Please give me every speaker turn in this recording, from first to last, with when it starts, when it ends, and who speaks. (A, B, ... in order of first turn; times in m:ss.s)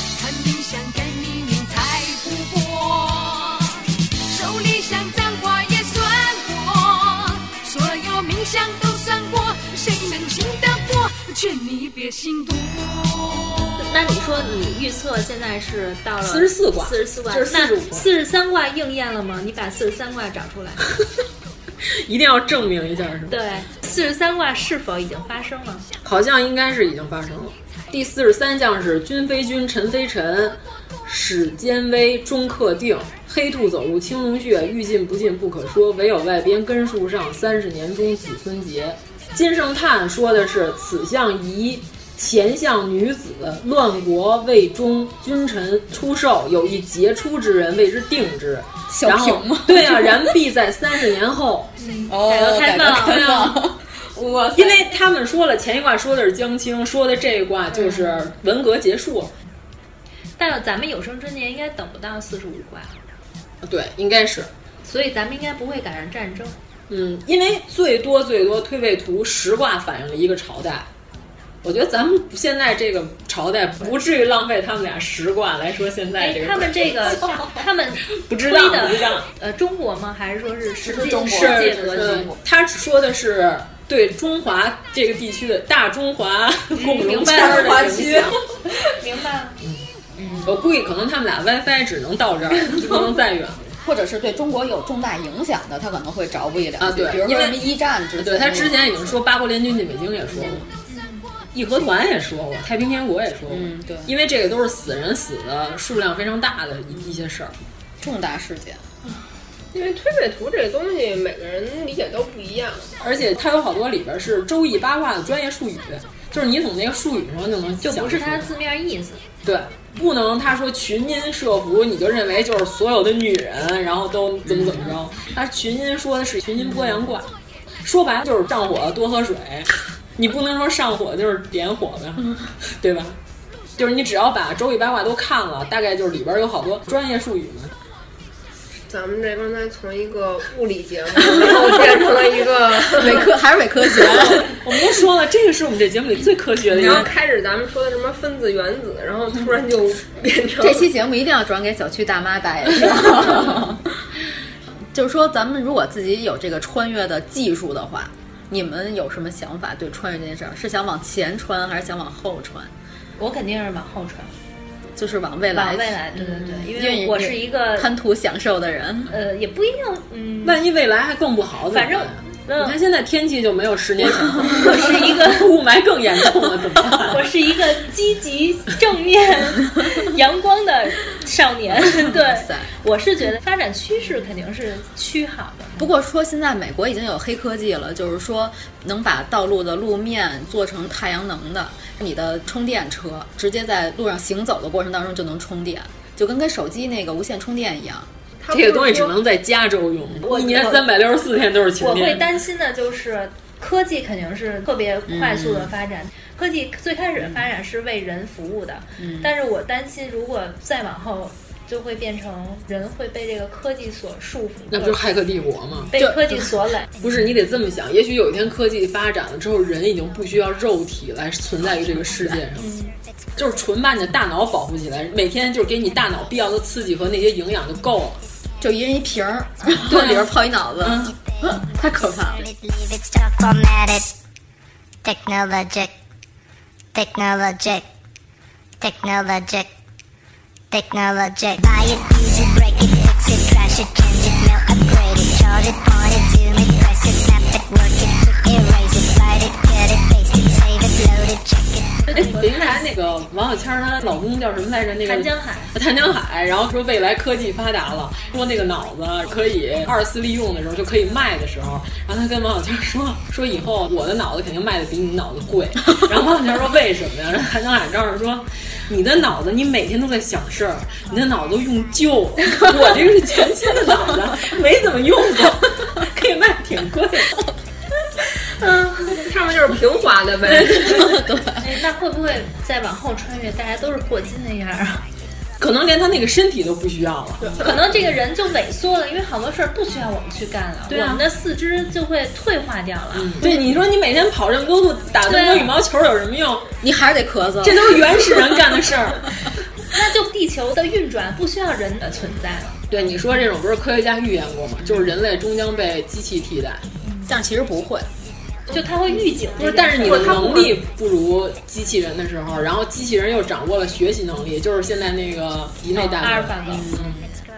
0:00.2-0:13.8 A
0:13.8-0:20.9 B
0:16.2-0:18.1 C
0:21.9-0:23.4 C
0:23.3-0:25.9 B
0:26.0-0:51.7 C
0:48.9-0:50.4 D
0:51.8-0:53.4 B
0:52.1-0:54.9 D
0:52.9-0:53.5 C
0:54.6-0:59.3 C
0:57.8-0:58.2 B
1:00.4-1:03.0 B
1:03.6-1:04.5 C
1:04.8-1:06.6 B
1:06.9-1:10.9 C
1:11.6-1:17.2 C
1:16.2-1:22.3 B
1:18.1-1:19.3 C
1:20.8-1:22.4 D
1:21.2-1:28.3 C
1:26.8-1:29.6 B
1:27.2-1:28.3 D
1:30.2-1:30.4 B
1:30.4-1:33.7 C
1:33.8-1:39.1 D
1:36.8-1:40.6 C
1:40.3-1:40.7 D
1:40.9-1:41.3 B
1:41.5-1:47.5 C
1:43.5-1:44.1 D
1:48.0-1:48.8 D
1:49.7-1:52.9 E
1:53.0-1:58.5 C
1:57.8-1:59.2 B
1:59.4-2:07.3 C
2:04.5-2:05.0 D
2:07.8-2:13.2 C
2:13.8-2:17.7 C
2:18.9-2:23.3 E
2:22.9-2:24.6 D
2:24.4-2:27.1 C
2:26.7-2:27.1 D
2:26.8-2:30.9 E
2:30.6-2:34.1 D
2:34.9-2:42.7 D
2:43.2-2:44.3 B
2:45.0-2:49.2 D
2:45.5-2:47.9 B
2:49.1-2:50.6 B
2:50.4-2:57.3 C
2:51.7-2:52.8 B
2:54.4-2:55.5 B
2:57.1-3:05.9 B
3:01.8-3:02.7 D
3:05.8-3:18.1 D
3:18.4-3:19.2 E
3:18.5-3:22.2 C
3:20.3-3:20.9 B
3:21.8-3:35.1 B
3:25.1-3:25.7 D
3:29.0-3:29.3 D
3:34.7-3:35.9 C
3:35.9-3:36.9 B
3:36.0-3:36.5 D
3:37.0-3:42.7 C
3:42.6-3:43.0 B
3:43.4-3:48.2 C
3:48.6-3:52.5 D
3:49.9-3:50.3 C
3:50.8-3:51.1 C
3:52.4-3:54.1 F
3:55.0-3:55.9 F
3:56.9-3:57.9 F
3:58.8-3:59.7 F
4:00.7-4:12.0 F
4:12.1-4:12.9 B
4:12.1-4:37.4 C
4:15.1-4:15.7 B
4:38.6-4:39.2 B
4:39.2-4:41.0 E
4:40.5-4:41.7 D
4:41.6-4:45.0 B
4:45.6-4:48.0 C
4:47.6-4:53.5 B
4:50.9-4:51.2 C
4:53.1-4:56.6 C
4:55.3-4:55.8 B
4:56.8-4:58.5 D
4:57.6-4:59.3 C
4:59.9-5:02.8 B
5:02.9-5:06.8 C
5:07.0-5:07.4 B
5:07.3-5:08.1 D
5:08.7-5:10.7 B
5:09.6-5:17.2 C
5:10.0-5:10.8 E
5:16.0-5:16.9 B
5:16.7-5:17.3 D